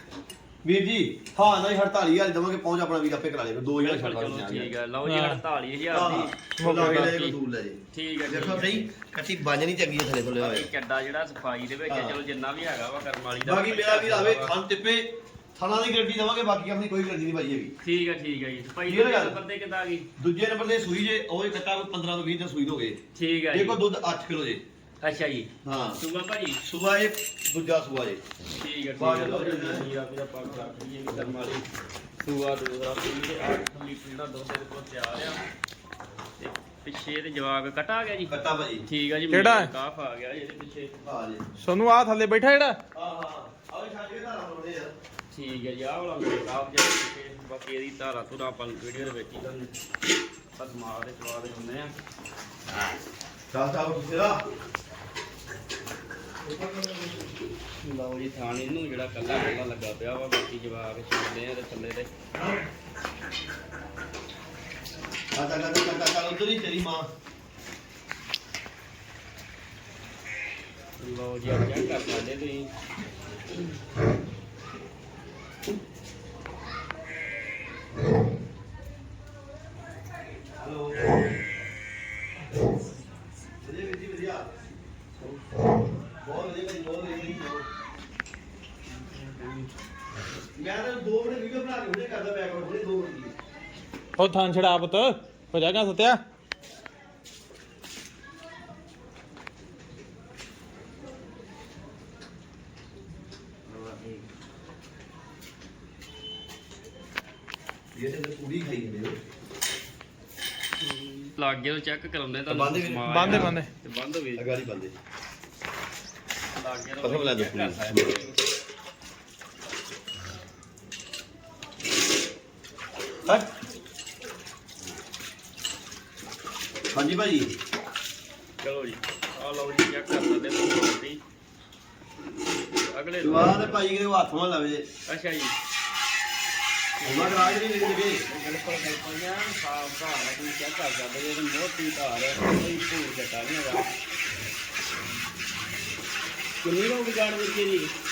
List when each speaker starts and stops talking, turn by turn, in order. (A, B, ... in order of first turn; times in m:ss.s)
0:00.6-0:04.7 A
0:03.8-0:07.3 B
0:05.0-0:05.4 C
0:05.9-0:10.7 A
0:06.6-0:07.1 C
0:07.9-0:08.8 B
0:10.4-0:14.5 B
0:11.9-0:12.2 A
0:13.4-0:17.7 A
0:17.8-0:20.1 B
0:18.9-0:19.4 A
0:20.2-0:23.0 A
0:23.1-0:23.8 B
0:23.5-0:24.6 A
0:25.0-0:26.6 B
0:25.6-0:26.0 A
0:26.6-0:28.2 A
0:28.6-0:31.6 B
0:29.0-0:29.9 A
0:32.2-0:35.4 B
0:36.4-0:38.3 B
0:38.3-0:38.8 A
0:38.9-0:40.9 B
0:39.3-0:39.7 C
0:41.0-0:41.4 A
0:41.6-0:42.8 C
0:42.9-0:44.9 A
0:45.3-0:49.7 B
0:50.6-0:51.9 B
0:53.5-0:54.4 A
0:56.6-0:57.0 C
0:57.8-1:02.1 B
1:05.3-1:07.1 A
1:11.0-1:12.7 B
1:20.6-1:21.2 A
1:23.6-1:24.5 A
1:26.2-1:27.7 A
1:29.1-1:29.6 C
1:30.5-1:33.3 A
1:34.2-1:36.2 C
1:43.7-1:44.2 A
1:47.9-1:49.2 A
1:50.8-1:54.5 B
1:52.5-1:53.5 A
1:53.1-1:53.7 C
1:54.4-1:54.9 A
1:56.6-1:58.4 B
1:57.0-1:58.2 A
2:03.2-2:03.5 A
2:06.9-2:07.5 A
2:08.6-2:11.2 B
2:12.9-2:13.7 B
2:13.2-2:14.8 A
2:15.1-2:15.5 B
2:17.0-2:17.7 B
2:17.0-2:18.2 A
2:18.2-2:23.9 B
2:26.6-2:27.9 B